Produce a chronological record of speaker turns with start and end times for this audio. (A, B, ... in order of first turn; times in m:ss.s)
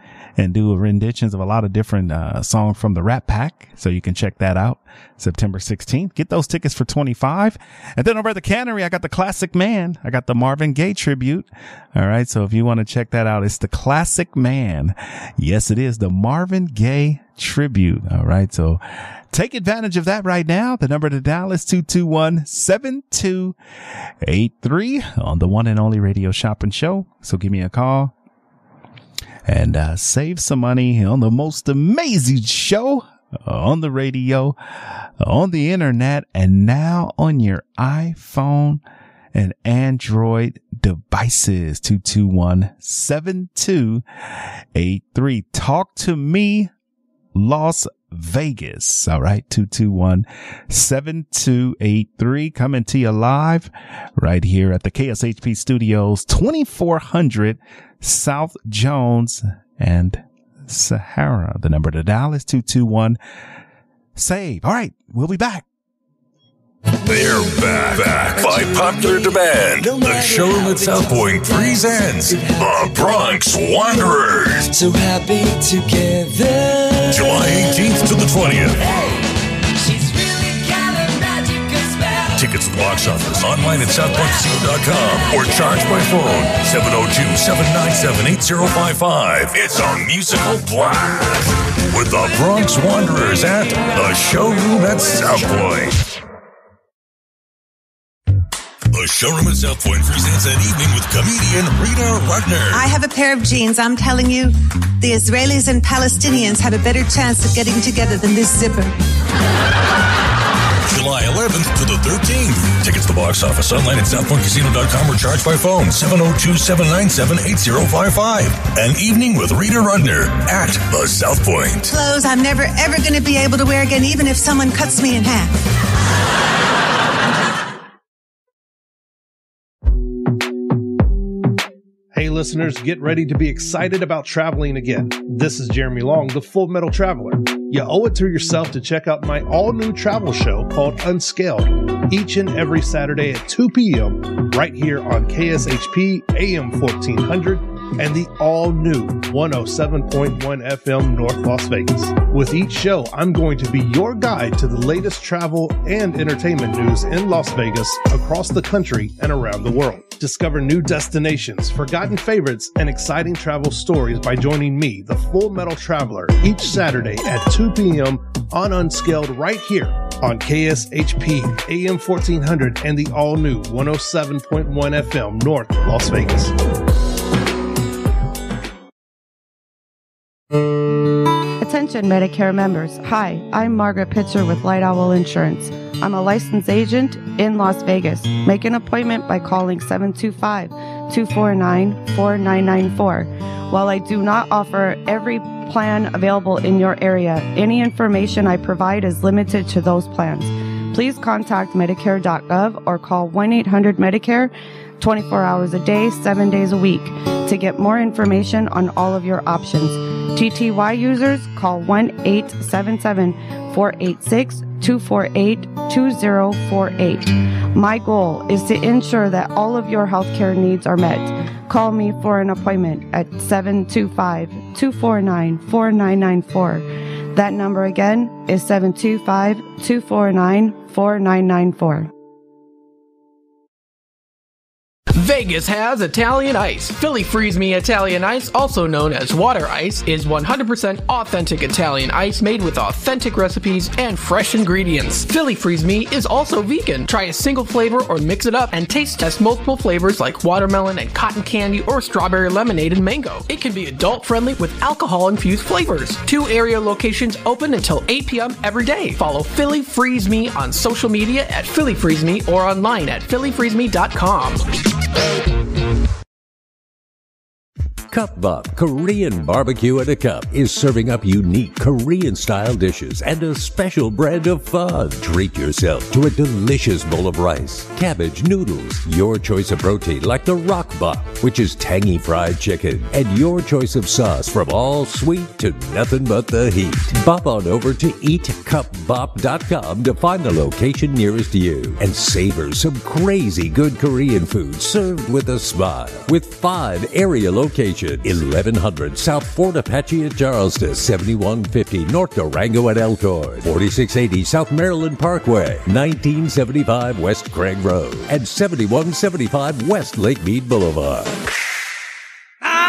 0:00.4-0:23.6 A
0:24.2-0:28.1 A
0:29.5-0:34.6 A
0:35.2-0:38.8 A
0:39.3-0:44.0 A
0:44.7-0:46.7 A
0:47.3-1:03.2 A
1:04.2-1:05.6 A
1:07.0-1:14.7 B
1:08.3-1:13.2 C
1:14.7-1:17.7 C
1:17.1-1:18.8 B
1:18.8-1:22.4 C
1:22.3-1:36.0 B
1:38.9-1:42.9 B
1:42.7-1:48.9 D
1:50.9-2:01.9 B
2:01.9-2:05.6 D
2:12.1-2:56.5 E
3:01.6-3:52.1 F
3:55.2-4:24.6 G
4:28.1-5:11.3 H